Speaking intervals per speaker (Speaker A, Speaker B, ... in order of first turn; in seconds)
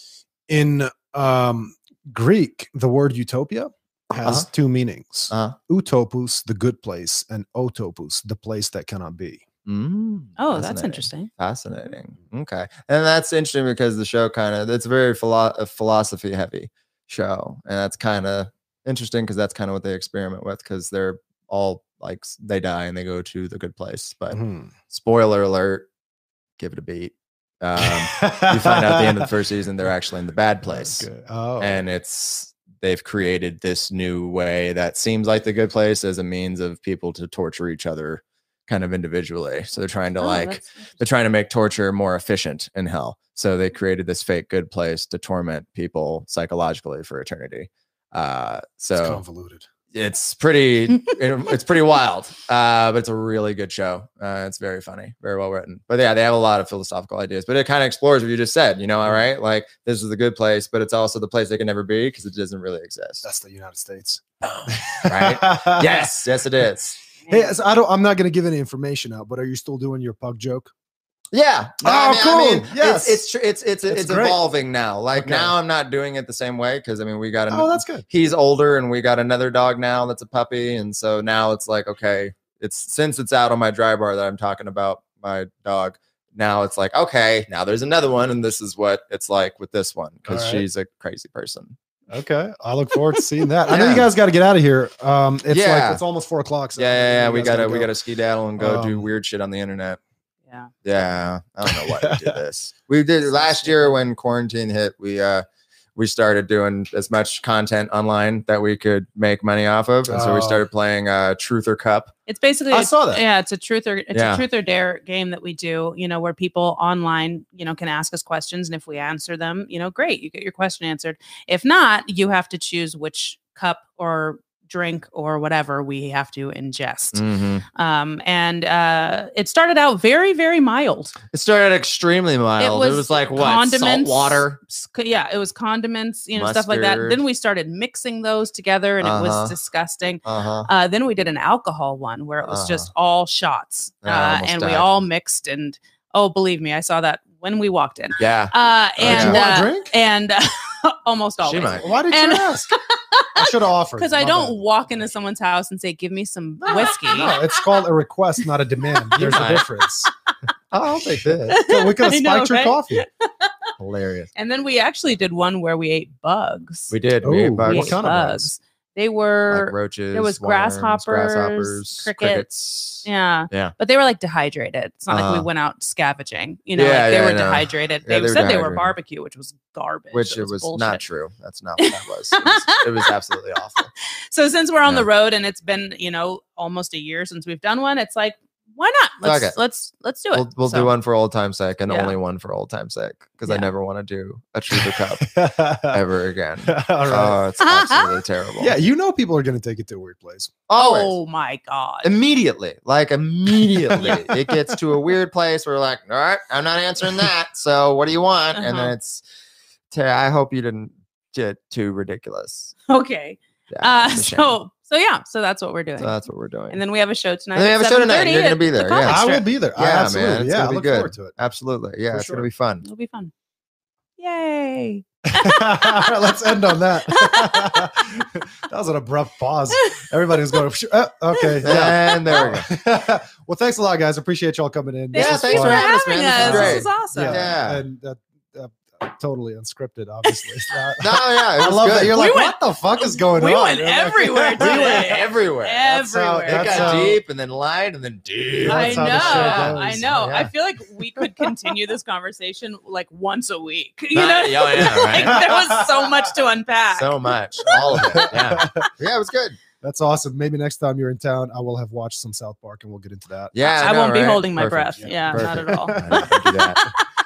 Speaker A: 0.5-9.4, 24.3-24.7, 27.8-29.3, 30.6-31.8, 49.0-49.6, 63.2-66.3, 67.3-70.7, 71.8-73.2, 73.9-74.4, 75.2-75.5, 77.5-78.0, 90.3-90.6, 92.1-97.9, 98.6-99.0, 101.7-102.4, 110.0-110.6, 112.7-113.2, 149.0-149.9, 151.8-152.7, 153.3-154.6, 157.0-160.1, 161.5-163.0, 167.2-168.5, 194.7-196.0, 196.7-197.4, 198.6-200.5, 203.5-204.8, 219.1-221.3, 222.1-222.5, 225.3-245.1, 245.9-247.2, 248.7-250.1, 255.2-256.1, 257.7-258.9, 259.8-263.6, 265.1-266.6
Speaker B: 5.3-5.6, 9.7-24.4, 24.9-25.9, 26.6-49.2, 49.9-63.2, 64.4-67.0, 71.3-91.8, 93.7-94.1, 95.5-96.0, 96.8-100.0, 100.8-105.4, 106.0-112.1, 114.1-114.4, 127.1-127.6, 131.3-134.6, 136.3-137.2, 139.0-139.6, 140.2-140.7, 142.4-142.9, 144.1-144.9, 148.2-149.4, 151.4-151.9, 156.6-157.3, 159.1-159.7, 160.7-161.6, 163.8-164.3, 166.9-168.0, 169.5-173.7, 175.1-175.5, 176.7-178.9, 180.1-183.9, 189.2-189.6, 190.3-198.7, 200.7-201.1, 202.0-209.2, 209.9-212.7, 213.7-214.5, 216.0-216.8, 217.6-219.2, 219.8-222.8, 231.6-232.7, 235.1-237.8, 241.0-242.3, 244.6-245.8, 246.5-250.5, 254.1-255.5, 256.9-259.6, 263.5-266.9
Speaker C: 10.4-11.3, 40.2-40.9, 67.2-67.5, 103.3-104.0, 112.3-127.2, 127.7-131.1, 132.6-157.5, 161.5-163.7, 164.3-166.9, 167.7-172.4, 173.0-181.0, 181.8-183.1, 183.8-190.9, 191.9-192.2, 193.4-193.7, 197.6-198.2, 200.8-202.1, 208.6-208.9, 212.9-216.2, 216.7-219.4, 222.8-223.3, 224.2-226.1, 227.1-227.8, 229.7-230.1, 235.1-237.4, 240.3-240.5, 242.1-247.2, 248.7-258.3, 263.6-267.1